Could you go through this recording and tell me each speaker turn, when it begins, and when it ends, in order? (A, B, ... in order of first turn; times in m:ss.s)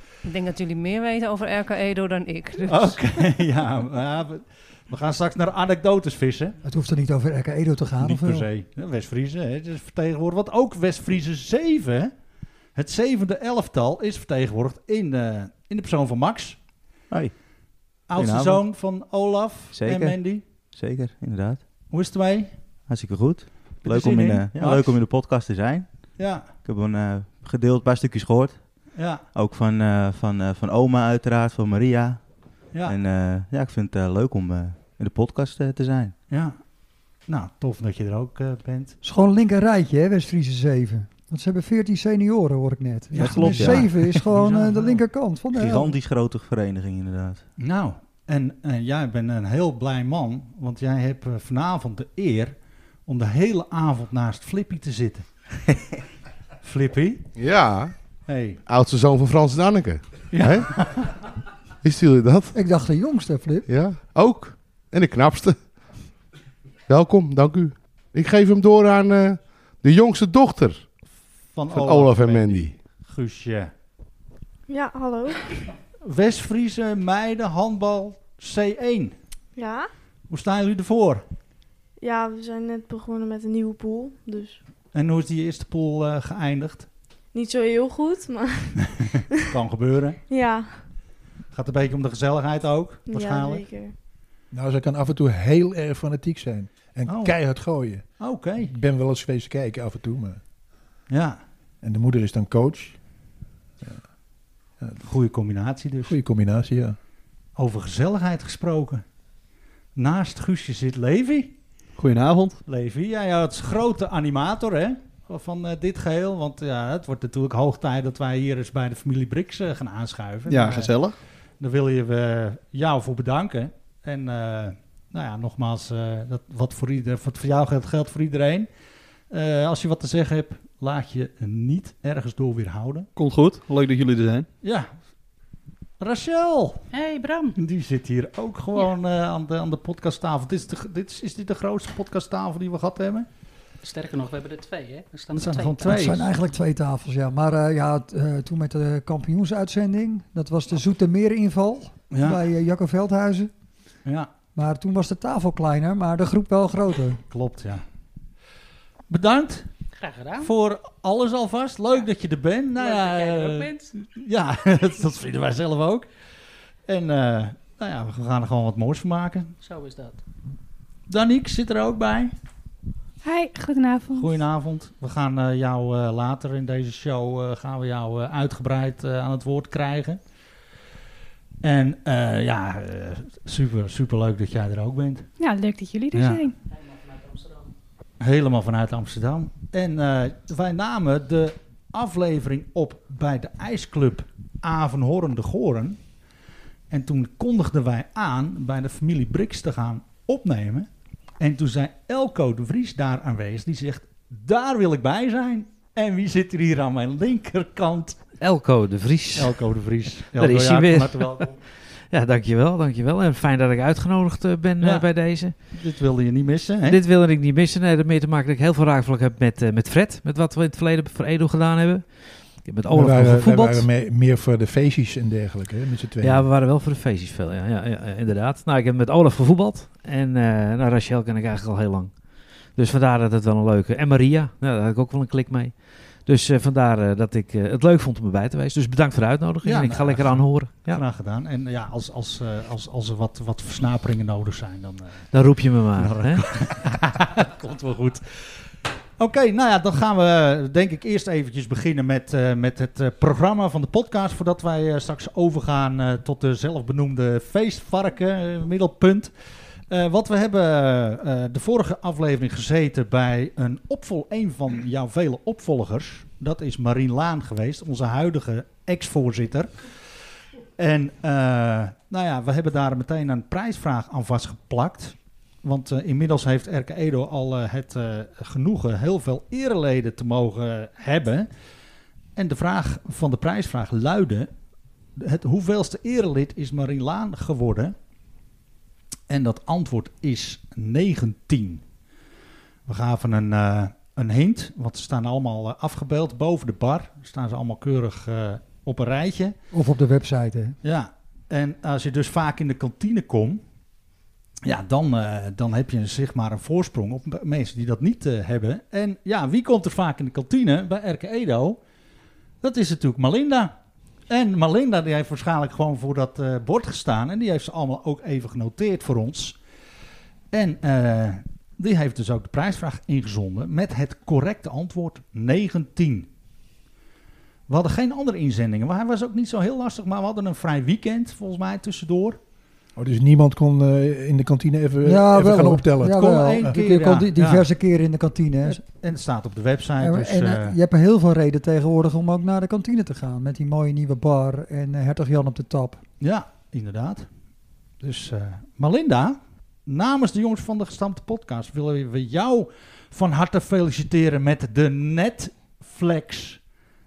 0:00.2-0:03.3 A
0:02.6-0:06.6 B
0:06.6-0:08.4 C
0:08.0-0:12.1 B
0:12.8-0:16.6 B
0:18.1-0:20.4 B
0:18.1-0:18.6 D
0:19.7-0:20.2 D
0:20.7-0:21.6 D
0:21.9-0:22.5 B
0:22.9-0:26.1 D
0:23.8-0:25.0 B
0:26.2-0:26.5 B
0:26.6-0:28.6 D
0:28.9-0:29.2 B
0:29.3-0:32.2 D
0:32.8-0:36.1 D
0:36.3-0:36.6 B
0:37.3-0:39.0 B
0:39.0-0:46.0 C
0:43.2-0:45.0 B
0:43.2-0:43.8 E
0:43.2-0:43.9 D
0:45.5-0:47.4 D
0:47.6-0:52.5 B
0:53.0-0:55.2 B
0:56.6-0:57.2 B
0:57.4-0:57.9 F
0:58.3-0:58.6 B
0:58.6-1:00.7 F
1:00.3-1:01.1 B
1:01.8-1:02.5 F
1:02.5-1:03.7 C
1:03.7-1:05.6 F
1:06.9-1:10.8 F
1:11.5-1:13.7 B
1:11.7-1:12.7 F
1:14.7-1:15.4 G
1:16.0-1:19.1 B
1:19.6-1:19.9 G
1:20.3-1:21.2 B
1:22.0-1:24.6 G
1:24.9-1:26.9 B
1:27.3-1:28.8 G
1:29.5-1:30.2 B
1:30.3-1:30.7 G
1:31.5-1:33.6 B
1:33.1-1:33.9 G
1:34.5-1:38.0 H
1:37.1-1:37.4 B
1:38.2-1:38.7 B
1:38.6-1:40.4 H
1:41.1-1:41.4 B
1:41.8-1:43.0 H
1:45.0-1:46.2 B
1:46.0-1:47.0 H
1:47.6-1:49.0 B
1:50.0-1:51.5 B
1:52.0-1:52.6 E
1:52.6-2:00.9 B
2:00.5-2:01.2 E
2:01.6-2:08.7 B
2:09.3-2:13.1 B
2:13.2-2:14.5 E
2:14.6-2:14.9 B
2:16.0-2:16.8 B
2:16.9-2:17.6 I
2:17.6-2:23.3 B
2:23.8-2:26.3 I
2:25.4-2:26.2 B
2:25.8-2:33.5 C
2:32.1-2:32.4 B
2:34.0-2:34.3 B
2:34.5-2:37.2 C
2:37.3-2:37.8 B
2:39.1-2:39.7 B
2:40.0-2:40.5 I
2:40.4-2:46.1 B
2:42.8-2:43.9 I
2:46.8-2:49.6 B
2:49.6-2:50.2 I
2:51.1-2:52.3 B
2:53.2-2:54.4 J
2:54.2-3:00.2 B
3:01.6-3:05.3 B
3:05.4-3:06.5 J
3:06.1-3:06.5 B
3:06.9-3:07.6 I
3:08.2-3:16.0 B
3:16.9-3:20.9 B
3:21.4-3:28.2 B
3:28.4-3:29.6 K
3:29.3-3:31.5 B
3:30.2-3:31.5 K
3:32.1-3:35.5 K
3:34.8-3:35.1 B
3:35.7-3:37.0 B
3:36.8-3:43.9 K
3:42.9-3:46.5 H
3:46.2-4:01.0 K
3:59.6-4:05.3 B
4:05.3-4:06.4 K
4:05.9-4:08.4 B
4:09.2-4:19.3 B
4:19.9-4:29.7 B
4:30.8-4:41.5 B
4:42.4-4:44.5 B
4:45.2-4:47.9 B
4:49.3-4:51.8 B
4:52.9-4:59.5 B
4:59.7-5:00.8 C
5:00.8-5:03.6 B
5:04.6-5:11.8 B
5:12.6-5:13.7 B
5:14.3-5:19.6 B
5:20.5-5:26.3 B
5:27.7-5:32.4 B
5:33.0-5:36.2 H
5:35.0-5:38.8 C
5:36.1-5:37.6 B
5:38.6-5:40.8 B
5:40.0-5:46.0 C
5:46.2-5:47.3 B
5:48.0-5:56.6 B